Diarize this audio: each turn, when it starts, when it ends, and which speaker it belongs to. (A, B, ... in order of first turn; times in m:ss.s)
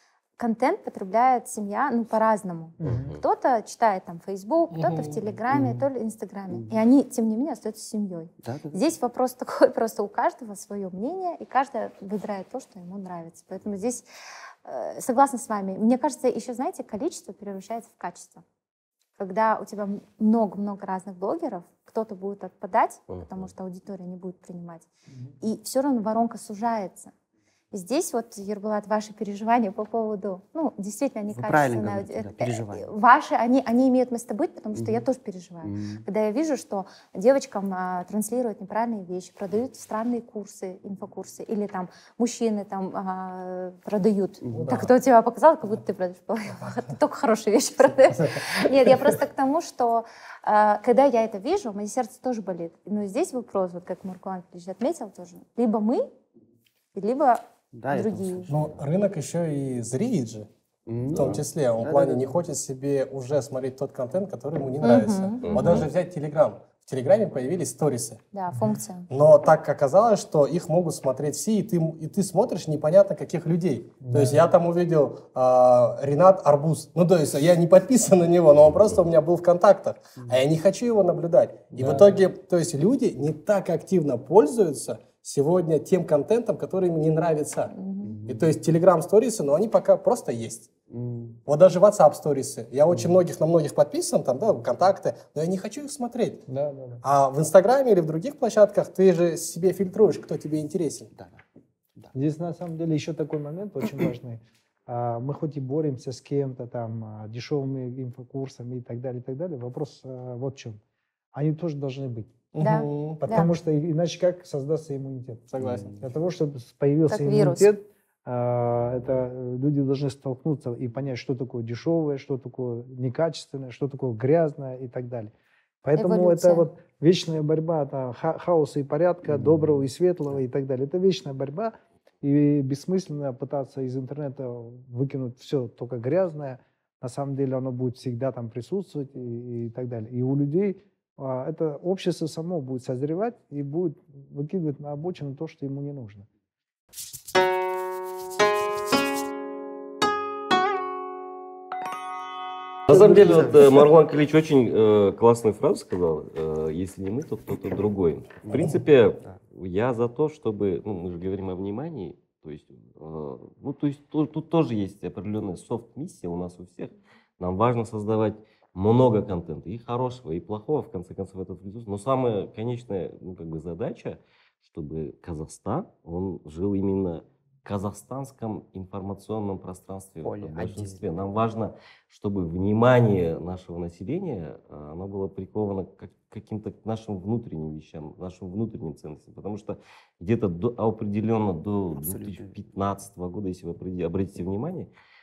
0:00.4-0:14.0 A
0:02.8-0:03.1 B
0:02.8-0:03.2 C
0:04.7-0:05.2 D
0:05.5-0:05.8 E
0:06.5-0:06.8 E
0:08.4-0:08.8 E
0:14.6-0:18.4 A
0:19.2-0:24.9 A
0:23.1-0:23.5 C
0:25.4-0:27.1 A
0:27.7-0:56.1 A
0:31.3-0:32.9 E
0:34.7-0:35.0 E
0:35.6-0:36.0 E
0:44.4-0:44.8 E
0:46.6-0:46.9 D
0:48.1-0:49.2 D
0:56.9-0:58.5 A
0:57.7-0:58.6 E
0:58.5-1:00.5 D
1:00.8-1:02.3 E
1:01.1-1:01.4 C
1:01.1-1:08.2 D
1:04.8-1:05.9 A
1:05.5-1:05.8 C
1:08.3-1:09.1 A
1:09.1-1:27.7 D
1:14.0-1:14.4 B
1:27.7-1:28.2 A
1:28.0-1:28.5 E
1:28.2-1:30.7 D
1:30.9-1:31.4 E
1:31.4-1:36.4 D
1:36.5-1:37.0 B
1:37.0-1:41.1 D
1:42.1-1:50.8 B
1:51.3-1:52.4 B
1:52.5-1:53.2 D
1:52.6-1:53.5 A
1:53.2-2:05.3 B
1:55.5-1:55.9 D
1:55.6-1:55.9 E
1:57.1-1:57.7 A
2:05.8-2:26.3 B
2:06.0-2:06.6 A
2:32.9-2:33.7 E
2:32.9-3:14.9 C
2:38.5-2:38.7 E
3:00.2-3:01.0 E
3:11.9-3:12.6 E